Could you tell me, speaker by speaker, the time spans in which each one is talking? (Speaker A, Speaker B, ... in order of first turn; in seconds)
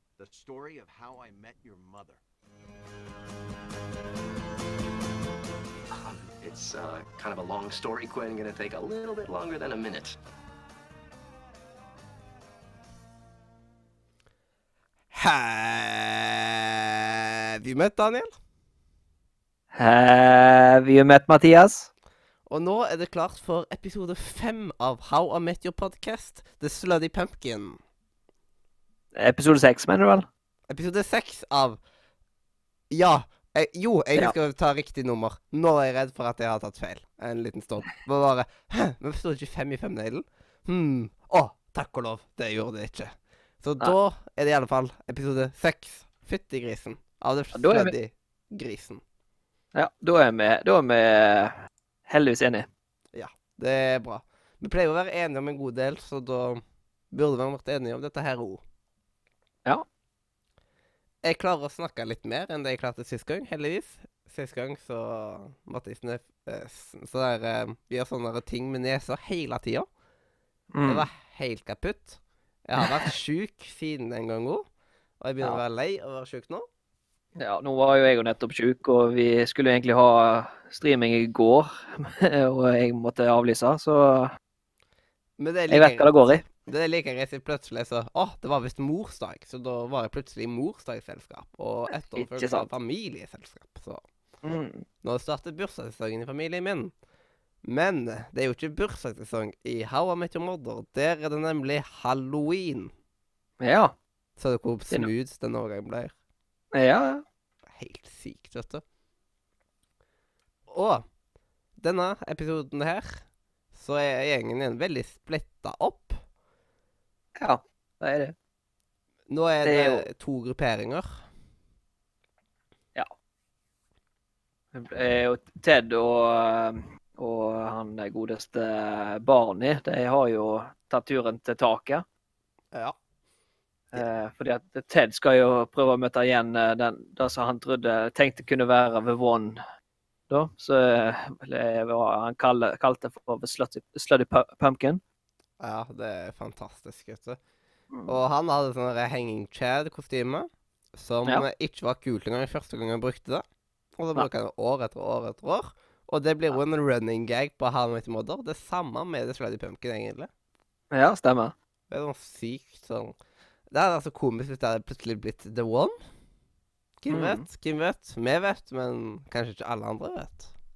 Speaker A: 0.2-2.2
Speaker B: 5.9-10.2
Speaker C: 15.1-18.3, 22.5-27.8, 30.7-31.8, 32.9-49.0, 53.1-58.6, 61.2-69.9, 70.8-74.7, 75.2-76.7, 85.4-94.0, 95.0-96.9, 97.6-102.9, 104.4-106.2, 107.7-108.8, 110.7-111.0, 111.8-116.2, 119.3-121.2, 145.6-147.4, 148.1-153.4, 154.0-160.3, 161.9-163.2, 163.7-166.0, 167.0-170.5
Speaker D: 19.8-21.9, 29.2-30.3, 47.5-48.0, 49.7-51.6, 52.1-52.7, 70.7-71.1, 77.4-84.3, 85.7-86.4, 92.2-92.7, 94.4-94.8, 103.6-104.0, 106.7-107.2, 117.4-118.3, 119.6-120.1, 124.7-132.1, 133.9-139.6, 140.3-145.0, 160.9-161.5, 167.1-167.4